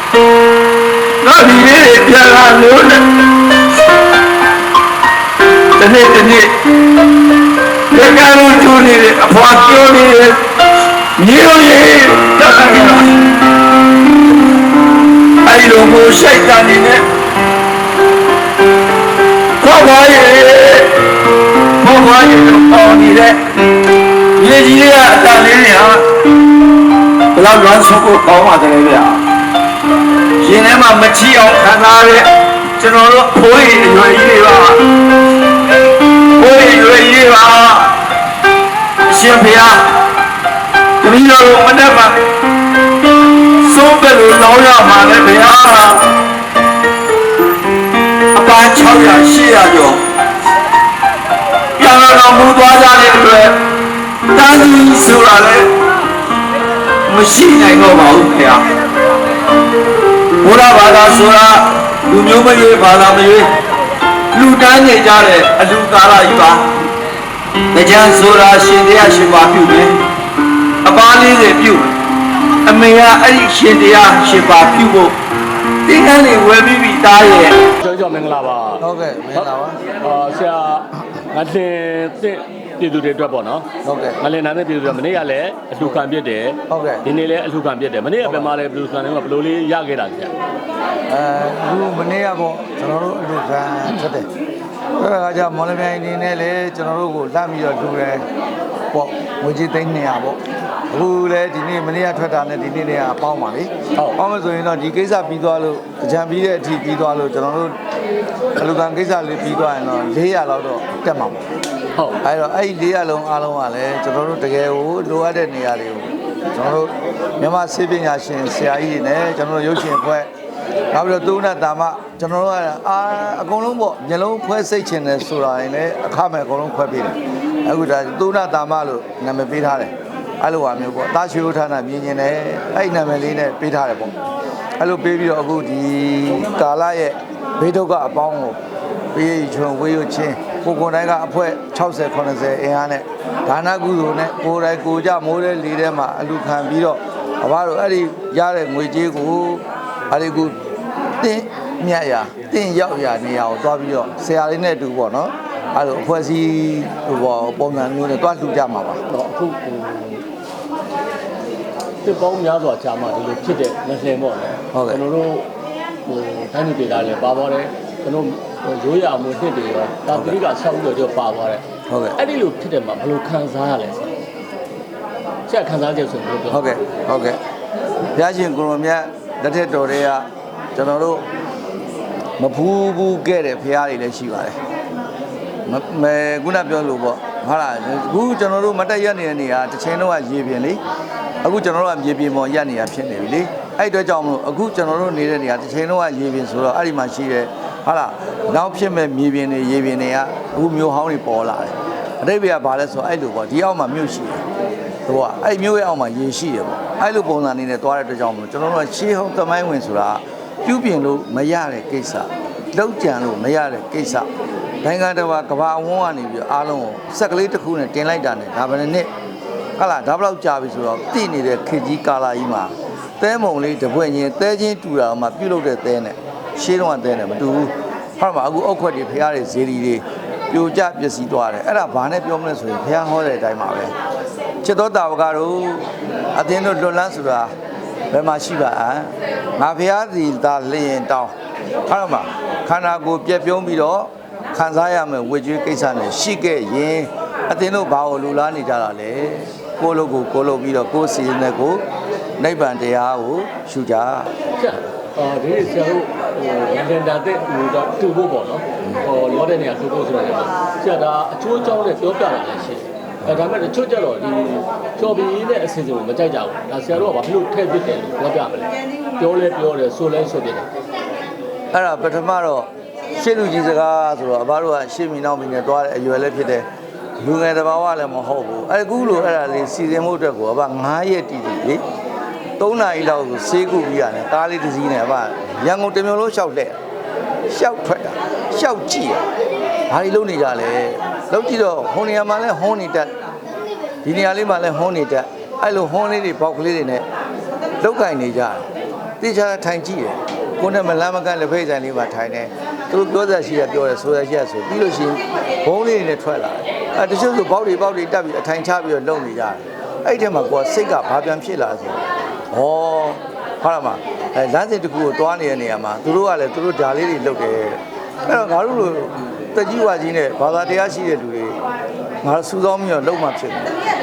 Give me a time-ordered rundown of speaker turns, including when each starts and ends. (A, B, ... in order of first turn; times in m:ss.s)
0:01.2-0:03.0 A
0:05.8-0:06.5 A
0:07.9-0:10.4 A
0:11.2-0:13.2 A
0:15.4-0:17.0 A
0:19.6-0:20.9 A
0:21.8-0:23.4 A
0:24.4-0:26.0 A
0:27.4-0:29.2 A
0:30.4-0:34.8 A
0:36.4-0:38.0 A
0:39.1-0:39.9 A
0:41.0-0:42.2 A
0:43.6-0:46.1 A
0:48.3-0:50.0 A
0:51.8-0:53.6 A
0:54.3-0:55.7 A
0:57.1-0:58.7 A
1:00.4-1:03.5 A
1:04.3-1:06.7 A
1:07.7-1:10.0 A
1:10.8-1:11.9 A
1:12.6-1:15.2 A
1:15.8-1:17.6 A
1:17.8-1:18.8 B
1:18.8-1:19.8 C
1:19.3-1:23.7 B
1:23.8-1:24.2 C
1:24.2-1:30.3 B
1:26.7-1:27.0 C
1:28.2-1:28.5 C
1:31.1-1:34.3 C
1:35.0-1:38.2 C
1:38.9-1:47.8 C
1:48.6-1:51.5 C
1:52.0-1:52.2 B
1:52.2-2:00.3 C
2:00.9-2:14.1 C
2:14.8-2:18.6 C
2:19.1-2:30.6 C
2:31.2-2:39.0 C
2:39.1-2:40.2 B
2:42.0-2:45.5 B
2:44.7-2:45.0 C
2:46.1-2:51.6 B
2:50.1-2:50.4 C
2:51.9-2:52.2 C
2:52.2-2:54.1 B
2:55.5-2:56.7 B
2:56.5-2:57.4 C
2:58.2-3:01.2 C
3:02.4-3:04.6 C
3:05.7-3:10.8 C
3:11.4-3:24.4 C
3:25.1-3:34.3 C
3:34.8-3:39.1 C
3:39.8-3:53.9 C
3:54.6-3:57.5 C
3:58.1-4:01.3 C
4:01.9-4:11.8 C
4:12.4-4:14.3 C
4:14.6-4:30.7 B
4:31.7-4:36.7 C
4:37.2-4:41.8 C
4:42.6-4:46.8 C
4:47.5-4:49.2 C
4:49.9-4:53.1 C
4:54.0-4:57.1 C
4:57.8-4:58.7 C
4:59.2-5:12.0 C
5:12.5-5:21.6 C
5:22.2-5:23.8 C